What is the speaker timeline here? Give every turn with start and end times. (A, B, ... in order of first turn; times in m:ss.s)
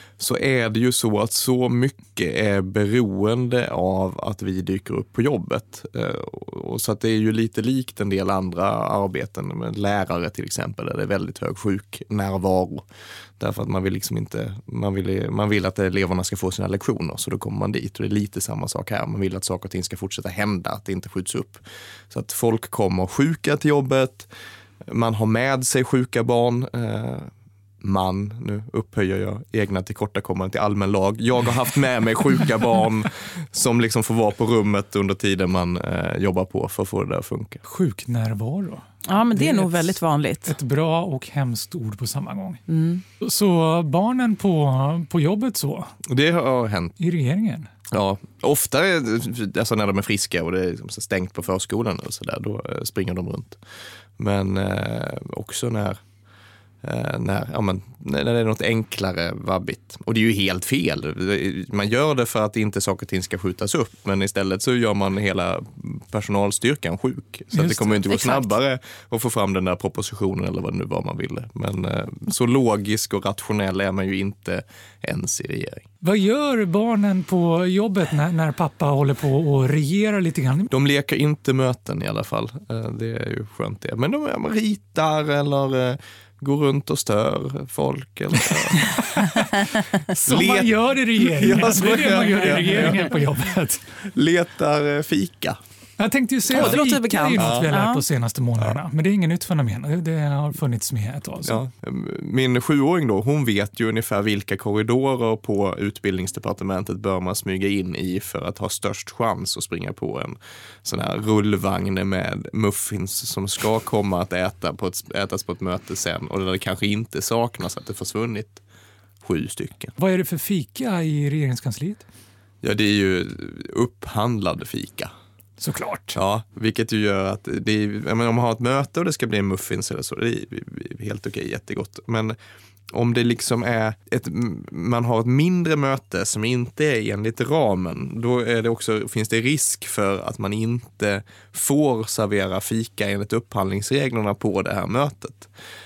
0:00.2-0:12.8 A
0:13.4-0:24.3 A
0:24.8-0:27.3 A
0:27.8-0:37.6 A
0:37.6-0:42.6 B
0:39.1-0:40.5 C
0:42.7-0:43.0 C
0:43.2-0:45.9 B
0:46.0-0:47.0 A
0:47.0-0:47.7 B
0:47.9-0:53.6 A
0:54.2-0:56.0 A
0:56.8-1:15.9 A
1:07.5-1:08.4 B
1:16.0-1:20.7 B
1:20.7-1:28.9 A
1:30.2-1:33.2 A
1:30.2-1:33.8 B
1:34.0-1:35.6 A
1:36.0-1:41.6 B
1:36.5-1:38.0 C
1:37.4-1:37.7 A
1:41.4-1:58.6 A
1:59.2-1:59.9 A
2:00.0-2:02.0 B
2:02.6-2:05.1 A
2:05.6-2:06.2 B
2:06.1-2:12.4 A
2:12.9-2:25.5 A